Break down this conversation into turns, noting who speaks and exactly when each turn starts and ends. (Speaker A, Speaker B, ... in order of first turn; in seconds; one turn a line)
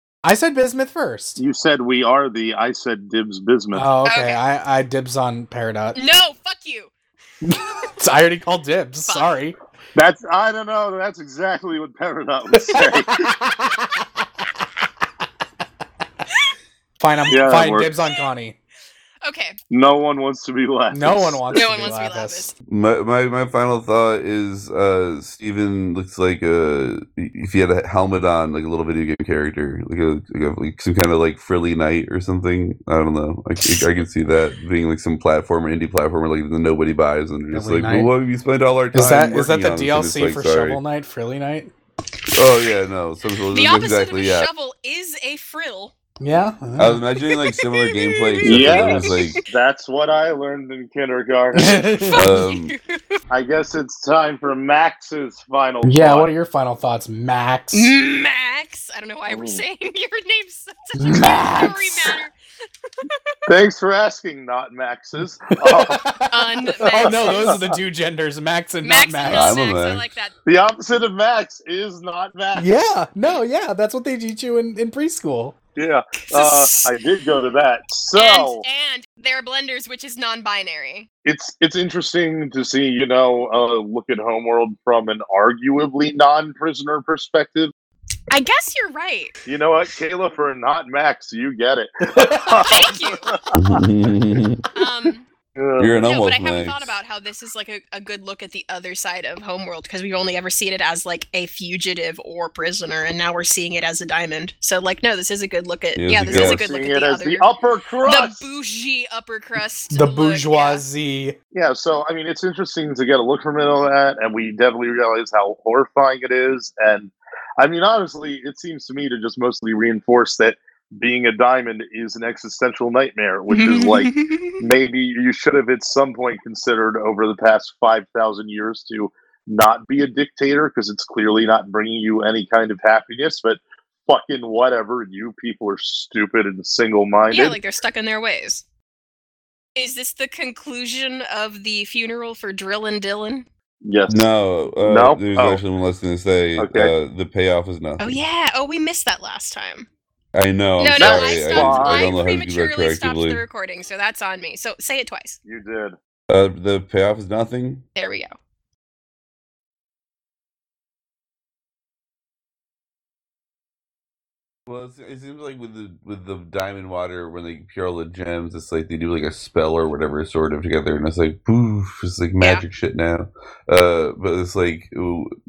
Speaker A: 0.2-1.4
Speaker B: 1.4-3.9
Speaker A: 3.7-6.0
Speaker C: 4.0-4.4
Speaker C: 5.9-6.9
Speaker A: 7.4-9.6
Speaker C: 9.0-9.5
Speaker B: 9.9-13.1
Speaker A: 12.5-14.0
Speaker A: 17.0-18.6
Speaker B: 17.3-17.9
Speaker C: 19.2-19.6
Speaker B: 19.7-21.6
Speaker A: 20.9-22.5
Speaker C: 21.5-22.5
Speaker D: 22.7-40.8
Speaker A: 37.5-38.1
Speaker A: 38.9-41.7
Speaker D: 42.3-44.5
Speaker C: 43.5-45.9
Speaker A: 46.2-47.0
Speaker D: 46.8-49.4
Speaker C: 47.2-49.4
Speaker B: 48.4-52.0
Speaker A: 51.5-52.3
Speaker C: 52.0-53.2
Speaker D: 52.1-52.7
Speaker B: 53.3-56.3
Speaker A: 55.8-57.9
Speaker C: 57.7-62.3
Speaker B: 59.3-59.6
Speaker A: 61.0-62.1
Speaker B: 63.5-66.0
Speaker A: 65.5-69.5
Speaker C: 66.3-67.7
Speaker B: 66.9-67.6
Speaker C: 68.8-70.3
Speaker D: 69.3-70.0
Speaker B: 70.4-72.7
Speaker A: 72.5-75.5
Speaker B: 75.8-78.6
Speaker C: 76.3-76.9
Speaker C: 78.1-81.1
Speaker B: 81.2-87.7
Speaker C: 88.3-89.4
Speaker B: 89.4-93.5
Speaker C: 92.6-93.3
Speaker D: 93.5-94.7
Speaker C: 94.7-95.2
Speaker B: 95.5-96.0
Speaker D: 95.8-96.9
Speaker C: 96.0-107.5
Speaker D: 106.0-106.6
Speaker B: 106.3-108.5
Speaker C: 108.0-110.8
Speaker A: 109.9-111.3
Speaker B: 111.5-137.6
Speaker C: 123.5-124.6
Speaker C: 137.3-138.6
Speaker C: 139.8-143.4
Speaker B: 143.8-144.3
Speaker D: 144.1-148.1
Speaker B: 144.8-145.6
Speaker B: 146.6-146.9
Speaker C: 148.0-149.9
Speaker D: 150.3-153.4
Speaker C: 150.8-155.4
Speaker B: 151.0-152.2
Speaker B: 155.4-155.9
Speaker D: 156.3-157.8
Speaker C: 157.9-158.3
Speaker D: 164.7-175.3